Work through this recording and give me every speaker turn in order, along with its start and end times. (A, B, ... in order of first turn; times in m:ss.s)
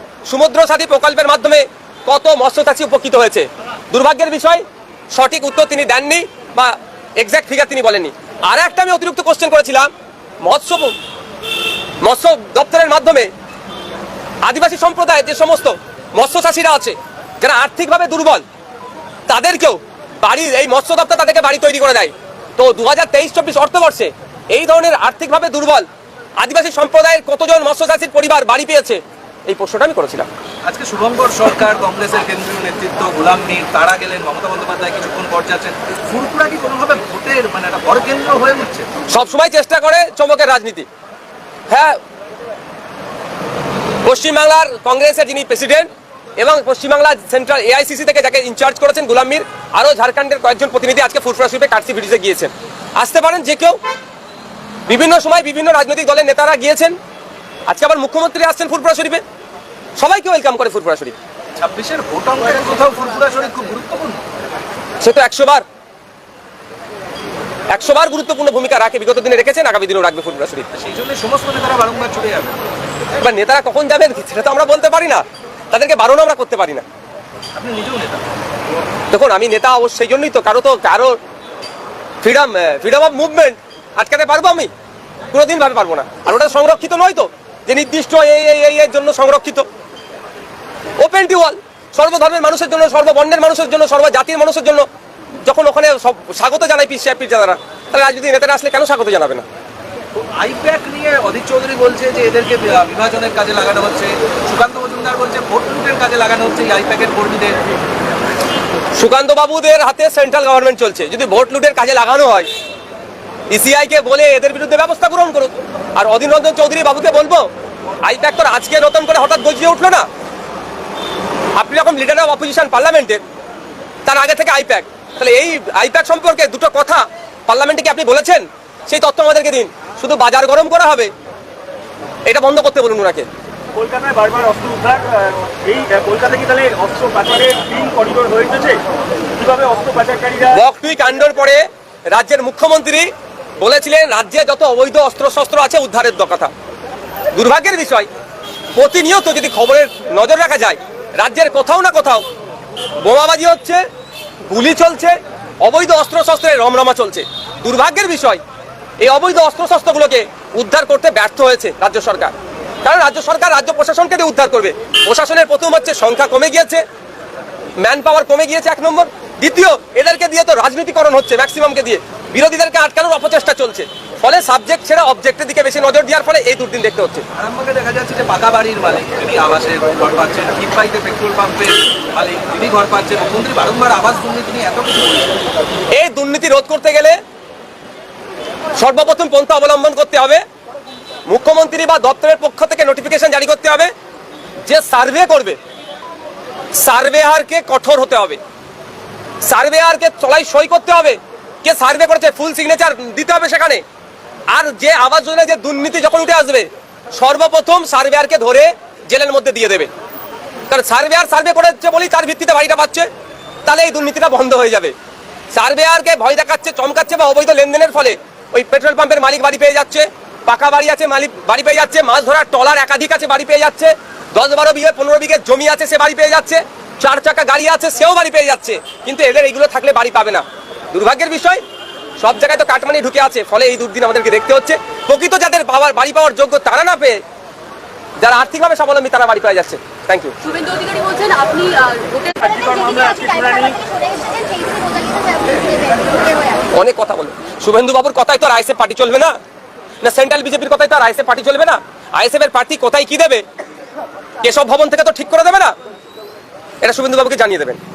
0:00.2-0:09.9 A
0:10.4-0:10.9 A
0:12.0-0:13.3 A
0:14.4-0:18.4 A
0:19.3-0:25.9 A
0:26.4-0:30.3 A
0:30.6-0:38.9 B
0:39.1-0:40.9 A
0:41.7-0:42.0 A
0:44.0-0:53.8 A
0:54.9-0:57.0 A
0:57.7-0:59.2 A
1:00.0-1:01.2 A
1:01.6-1:04.2 B
1:05.0-1:05.6 A
1:07.7-1:10.7 A
1:10.7-1:12.6 B
1:13.2-1:16.8 A
1:17.5-1:18.2 B
1:19.1-1:21.2 A
1:22.2-1:24.7 A
1:25.3-1:29.6 A
1:31.0-1:34.8 A
1:35.4-1:39.4 A
1:40.2-1:47.6 B
1:49.0-1:52.5 A
1:53.5-1:57.5 A
1:58.0-2:00.1 A
2:01.6-2:03.2 A
2:04.1-2:11.1 A
2:12.2-2:13.3 A
2:13.8-2:18.8 C
2:19.4-2:20.6 C
2:20.5-2:23.1 A
2:23.6-2:26.5 A
2:27.3-2:28.1 A
2:28.8-2:32.2 A
2:33.0-2:33.8 A
2:34.5-2:38.4 A
2:39.0-2:42.3 A
2:42.8-2:46.8 A
2:47.8-2:57.2 A
2:57.3-3:05.4 B
3:05.9-3:07.2 A
3:08.8-3:10.4 A
3:11.3-3:13.9 A
3:14.6-3:15.6 A
3:16.8-3:18.4 A
3:19.4-3:23.8 A
3:24.5-3:29.9 A
3:30.7-3:33.1 A
3:33.7-3:34.9 A
3:35.5-3:51.6 A
3:52.2-3:57.2 A
3:58.2-4:00.5 A
4:00.5-4:02.3 D
4:02.2-4:03.9 C
4:03.9-4:06.6 D
4:06.7-4:09.3 A
4:10.0-4:13.4 A
4:14.4-4:15.8 A
4:16.8-4:17.8 A